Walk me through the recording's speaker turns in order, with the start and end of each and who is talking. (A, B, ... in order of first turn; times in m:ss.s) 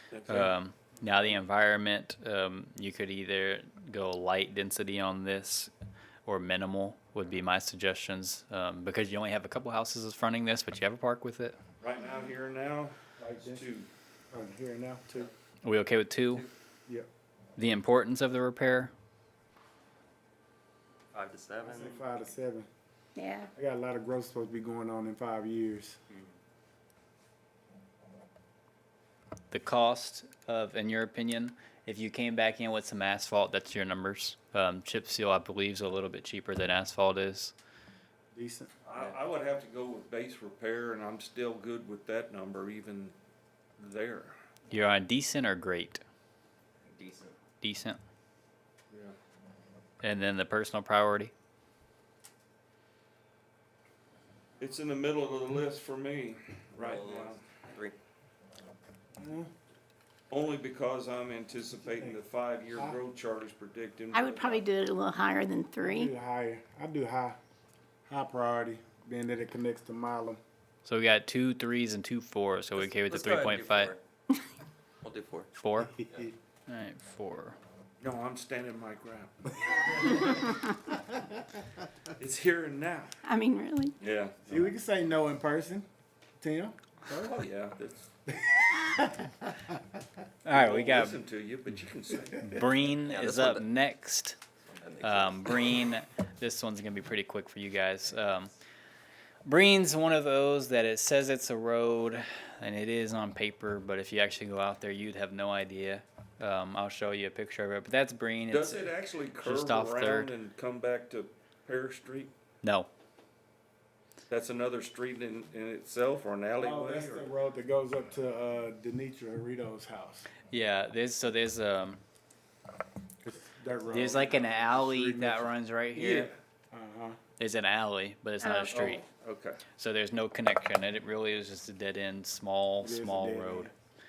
0:00.1-0:00.5 A
0:00.3-0:05.7 B
0:06.3-0:11.6 B
0:11.8-0:13.9 A
0:13.2-0:13.7 C
0:14.3-0:15.3 C
0:15.6-0:16.5 B
0:17.6-0:18.9 B
0:21.1-0:22.0 D
0:21.6-0:22.7 C
0:23.2-0:23.5 E
0:23.6-0:26.0 C
0:29.5-0:37.5 B
0:38.3-0:38.7 C
0:38.8-0:43.1 A
0:43.8-0:44.4 A
0:44.7-0:46.0 B
0:46.8-0:47.4 D
0:47.6-0:48.0 B
0:50.0-0:51.3 B
0:54.6-0:57.4 A
0:56.8-0:58.0 D
0:59.2-0:59.5 C
1:00.3-1:04.7 A
1:01.8-1:02.2 C
1:04.1-1:06.1 E
1:05.8-1:07.4 C
1:08.1-1:10.4 C
1:10.8-1:13.9 B
1:12.8-1:14.0 D
1:15.0-1:15.5 D
1:15.6-1:15.9 B
1:16.0-1:16.3 C
1:16.7-1:17.6 B
1:18.0-1:20.0 A
1:20.2-1:20.5 E
1:22.2-1:23.1 A
1:23.2-1:24.0 E
1:24.0-1:24.5 A
1:24.5-1:25.9 C
1:26.4-1:27.4 C
1:27.1-1:28.1 A
1:28.3-1:29.8 C
1:30.4-1:31.2 B
1:30.5-1:32.5 A
1:32.4-1:34.4 B
1:33.1-1:33.7 D
1:34.7-1:35.8 D
1:35.0-1:38.5 B
1:39.4-1:50.3 B
1:48.5-1:52.3 A
1:52.6-1:52.9 B
1:54.3-1:57.3 A
1:56.6-2:00.3 C
2:00.5-2:02.0 B
2:03.2-2:05.5 C
2:03.9-2:06.3 B
2:06.0-2:06.3 A
2:06.7-2:07.2 C
2:07.4-2:09.0 B
2:08.4-2:09.0 E
2:08.7-2:09.6 A
2:09.8-2:13.7 B
2:12.8-2:13.7 C